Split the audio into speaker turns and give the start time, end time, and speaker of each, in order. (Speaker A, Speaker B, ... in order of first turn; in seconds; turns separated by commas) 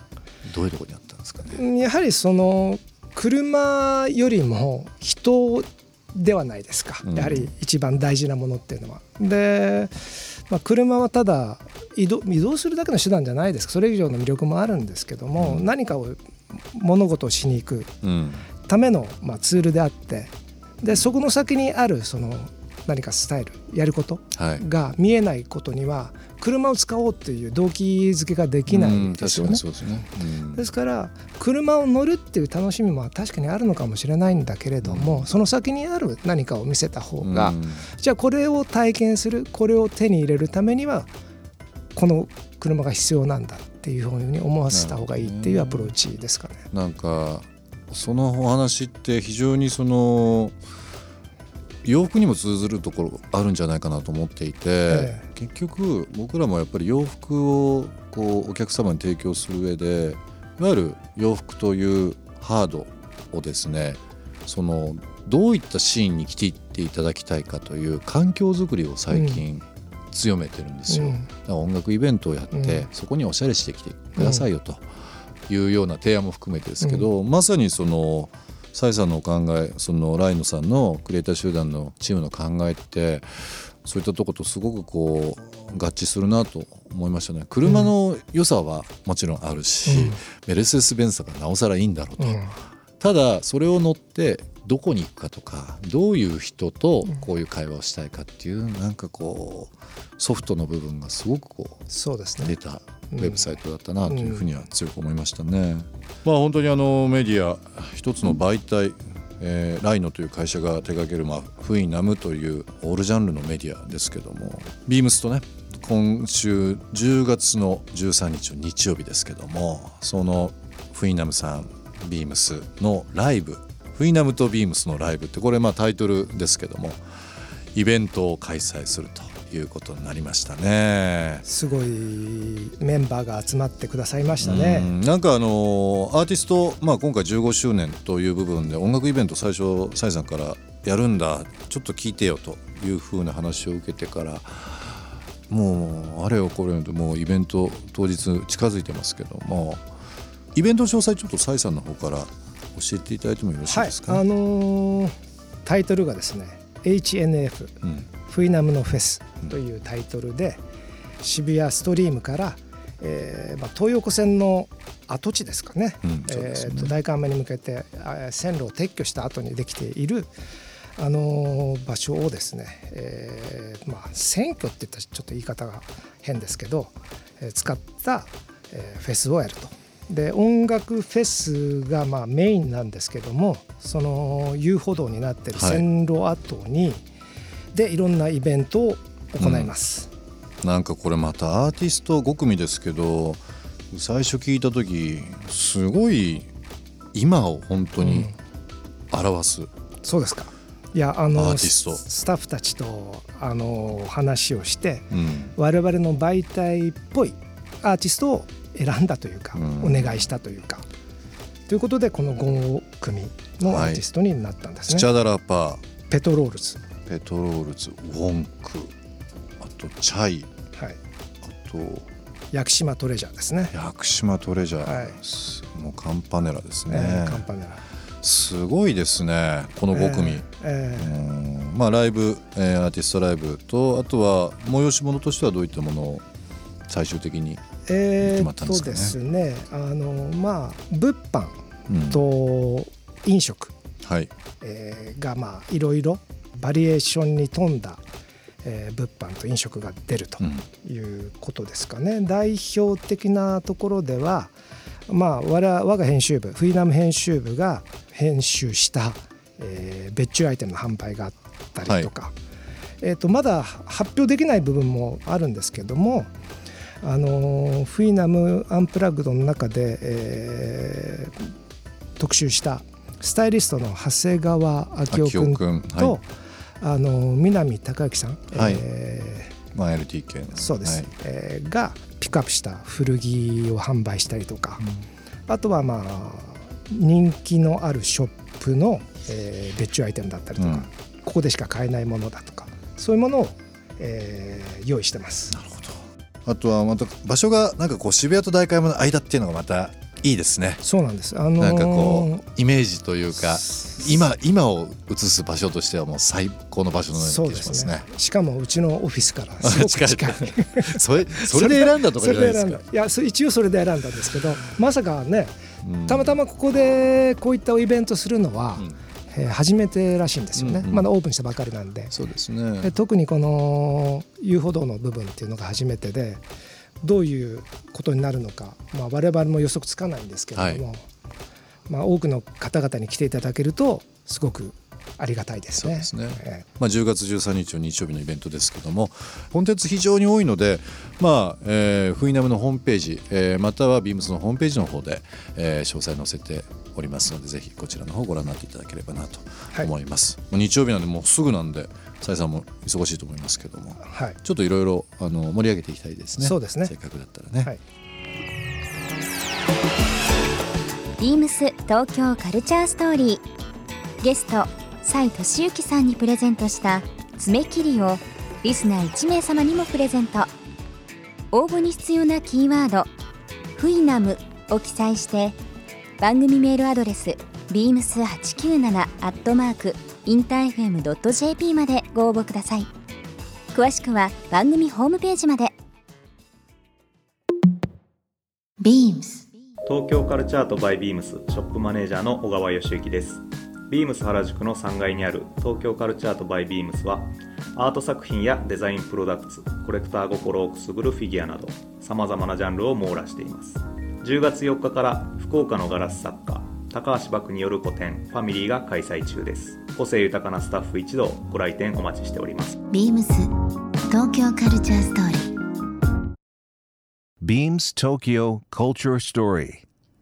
Speaker A: 0.5-1.6, Speaker B: 1.5-16.2, Speaker A: 7.0-7.5, Speaker A: 15.4-15.7, Speaker B: 16.7-17.9, Speaker A: 18.0-18.5, Speaker B: 18.6-29.6, Speaker A: 24.3-24.6, Speaker A: 28.7-30.7, Speaker B: 30.6-41.1, Speaker A: 34.8-35.3, Speaker A: 37.2-37.9, Speaker B: 42.0-46.6, Speaker A: 44.7-46.0, Speaker A: 46.7-50.6, Speaker A: 51.8-74.9, Speaker B: 54.9-55.2, Speaker B: 69.1-69.4, Speaker B: 70.9-71.3, Speaker B: 72.5-72.9, Speaker B: 74.2-74.4, Speaker A: 75.5-92.4, Speaker B: 89.9-90.2, Speaker B: 92.2-92.5, Speaker A: 93.0-101.8, Speaker B: 101.9-102.5, Speaker A: 102.4-127.0, Speaker B: 103.1-103.5, Speaker B: 104.1-104.4, Speaker A: 127.7-131.4, Speaker B: 131.4-134.9, Speaker A: 134.4-149.9, Speaker A: 150.5-154.2, Speaker B: 153.7-155.1, Speaker B: 155.7-160.6, Speaker A: 157.8-158.1, Speaker B: 161.2-170.3, Speaker A: 166.0-167.0, Speaker B: 171.0-187.1, Speaker A: 185.5-185.8, Speaker B: 187.7-190.1, Speaker A: 189.4-189.7, Speaker A: 190.6-196.5, Speaker A: 197.1-198.3, Speaker B: 198.0-198.3, Speaker A: 199.1-199.7, Speaker B: 200.0-210.8, Speaker A: 201.3-202.0, Speaker A: 205.1-205.5, Speaker A: 209.6-210.3, Speaker B: 211.7-215.1, Speaker A: 213.6-214.0, Speaker A: 214.9-215.8, Speaker B: 216.1-216.8, Speaker A: 217.1-218.9, Speaker A: 219.6-220.5, Speaker A: 221.4-222.1, Speaker B: 222.5-223.7, Speaker A: 223.7-227.5, Speaker B: 224.8-225.2, Speaker B: 226.9-227.8, Speaker A: 228.2-236.2, Speaker B: 229.9-231.2, Speaker A: 236.9-237.6, Speaker B: 237.9-241.6, Speaker A: 238.2-239.2, Speaker A: 241.9-242.2, Speaker B: 242.1-243.7, Speaker A: 244.0-244.3, Speaker B: 244.6-248.0, Speaker B: 248.6-254.5, Speaker A: 250.4-250.7, Speaker B: 255.1-262.3, Speaker A: 261.8-262.1, Speaker B: 263.0-266.3, Speaker B: 267.0-271.4, Speaker B: 272.2-276.3, Speaker A: 275.1-276.2, Speaker B: 276.8-279.5, Speaker A: 278.5-278.8, Speaker A: 279.7-281.1, Speaker B: 280.6-284.9, Speaker B: 285.5-295.5, Speaker A: 290.6-290.9, Speaker A: 295.5-300.8, Speaker B: 300.8-302.4, Speaker A: 301.6-308.1, Speaker B: 303.4-304.2, Speaker B: 307.1-322.1, Speaker A: 309.6-312.8, Speaker A: 315.8-316.4, Speaker A: 320.6-321.1, Speaker A: 322.1-322.9, Speaker B: 322.8-326.4, Speaker B: 327.0-331.1, Speaker A: 330.6-330.8, Speaker B: 331.9-336.6, Speaker A: 335.8-357.7, Speaker B: 354.1-354.4, Speaker B: 356.4-356.9, Speaker C: 361.2-363.4, Speaker C: 364.2-370.5, Speaker C: 371.5-373.1, Speaker C: 373.8-375.6, Speaker C: 376.2-382.9, Speaker C: 383.7-385.8, Speaker D: 388.8-389.5, Speaker E: 389.9-412.8, Speaker D: 412.9-413.5, Speaker D: 414.1-415.5, Speaker F: 417.4-419.8